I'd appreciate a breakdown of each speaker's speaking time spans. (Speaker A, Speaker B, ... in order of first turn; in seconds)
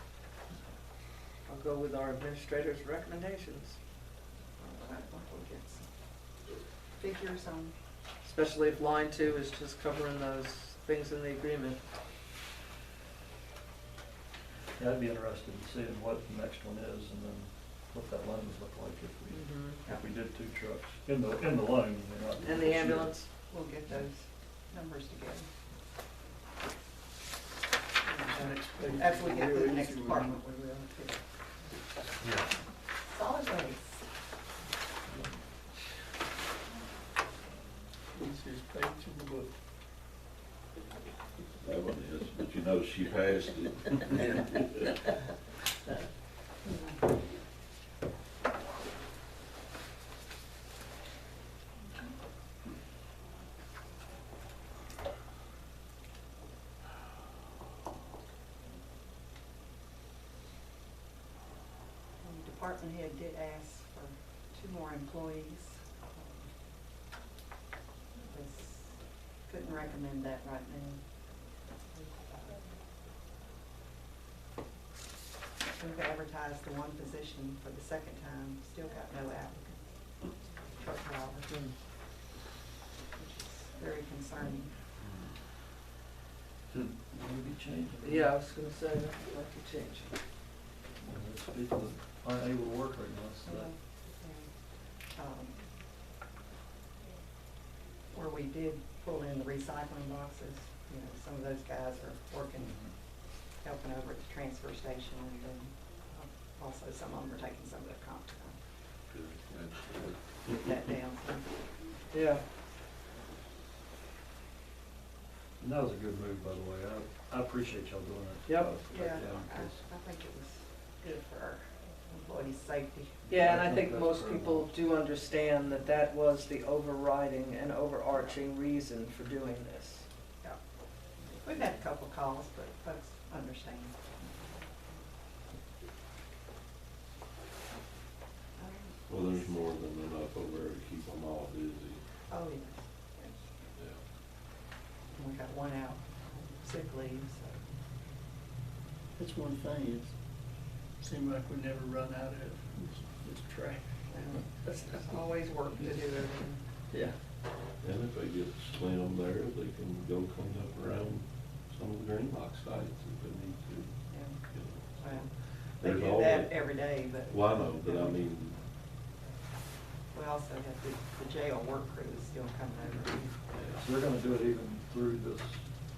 Speaker A: 1.5-3.8, 8.2-11.8, 19.3-19.8, 22.4-23.3, 88.0-90.1, 112.1-112.4, 118.5-118.8, 123.3-130.1
Speaker B: 4.6-5.9, 7.0-7.7, 23.5-25.4, 28.1-31.2, 33.1-34.0, 62.2-66.5, 68.3-71.0, 71.9-72.6, 75.8-79.9, 80.8-81.5, 83.2-84.7, 93.5-94.5, 95.1-95.6, 98.1-102.8, 103.6-108.6, 110.5-111.5, 118.9-123.2, 131.4-134.9, 138.6-139.0, 142.3-143.6, 145.1-147.6, 154.1-156.6, 164.1-164.4, 165.0-165.3, 165.8-168.2, 170.1-173.3
Speaker C: 14.8-23.1, 86.7-88.3, 91.0-93.7, 115.6-119.6, 123.3-124.7, 173.7-175.6
Speaker D: 28.3-30.3, 38.1-39.5, 149.2-150.1, 151.0-153.8
Speaker E: 41.6-44.6, 109.1-110.1, 139.1-142.0, 157.8-163.9, 164.5-165.2, 165.8-166.7, 167.2-168.6